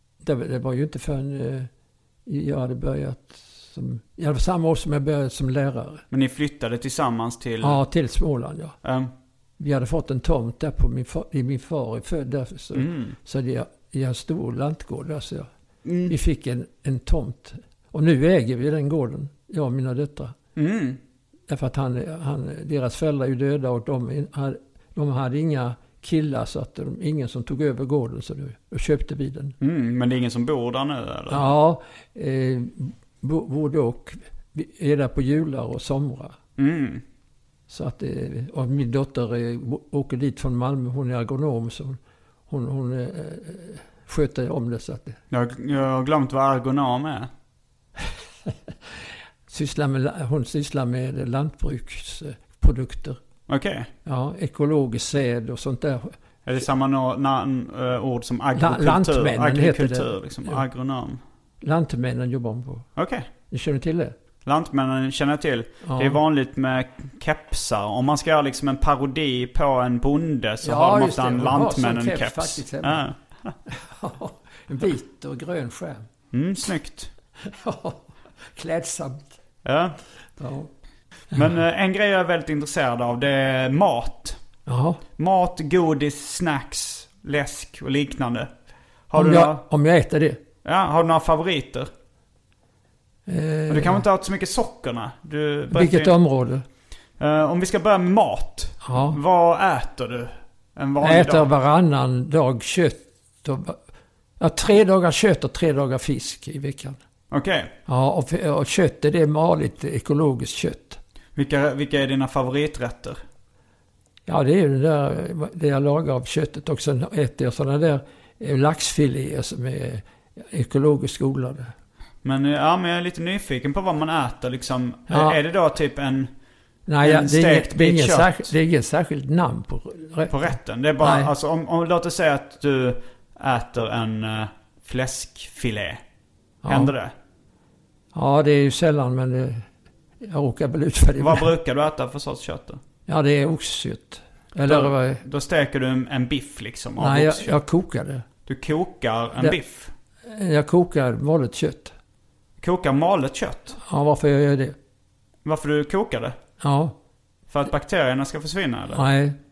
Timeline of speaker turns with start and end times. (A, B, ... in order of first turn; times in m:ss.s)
0:00.2-0:01.7 A
0:02.3-0:06.0 A
0:06.1-0:07.8 B
0:07.6-0:08.8 A
0:08.8-0:09.1 B
0:09.6-0:15.5 A
0:12.7-0:13.2 B
0:15.8-0:16.1 B
0:16.1-0:20.3 A
0:20.6-0:21.0 B
0:21.5-0:29.6 A
0:29.6-0:31.5 B
0:31.3-0:36.4 A
0:36.6-0:37.0 B
0:37.7-0:45.2 A
0:45.3-0:47.3 B
0:49.5-0:53.2 A
0:53.5-0:53.9 B
0:54.0-0:56.1 A
0:56.5-1:01.2 B
0:58.6-1:00.6 A
1:01.6-1:02.9 A
1:03.0-1:03.3 B
1:03.5-1:04.1 A
1:04.4-1:13.5 B
1:05.8-1:06.2 A
1:10.6-1:13.0 A
1:13.7-1:16.1 A
1:16.3-1:17.1 B
1:17.4-1:19.3 A
1:19.6-1:20.0 B
1:20.4-1:20.7 A
1:21.3-1:24.4 B
1:24.7-1:25.0 A
1:25.2-1:28.5 B
1:29.1-1:29.6 B
1:29.1-1:30.4 A
1:30.6-1:31.9 B
1:33.3-1:34.0 A
1:33.7-1:36.1 B
1:35.7-1:36.6 A
1:37.2-1:41.5 B
1:38.8-1:39.2 A
1:41.0-1:43.8 A
1:44.4-1:47.0 A
1:47.3-1:47.7 B
1:47.9-1:51.0 A
1:51.4-1:53.2 B
1:54.3-2:01.7 A
2:02.2-2:06.3 B
2:05.1-2:05.4 A
2:06.9-2:10.5 A
2:07.0-2:08.5 B
2:10.3-2:16.0 B
2:11.0-2:11.3 A
2:16.6-2:16.9 A
2:16.7-2:17.1 B
2:18.1-2:19.6 A
2:20.2-2:21.5 A
2:21.2-2:22.8 B
2:23.1-2:25.2 A
2:24.6-2:27.5 B
2:27.0-2:28.2 A
2:28.5-2:29.9 B
2:30.2-2:31.9 A
2:32.6-2:33.8 B
2:33.7-2:34.8 A
2:35.4-2:36.4 B
2:36.6-2:37.0 A
2:37.5-2:39.1 B
2:38.9-2:39.4 A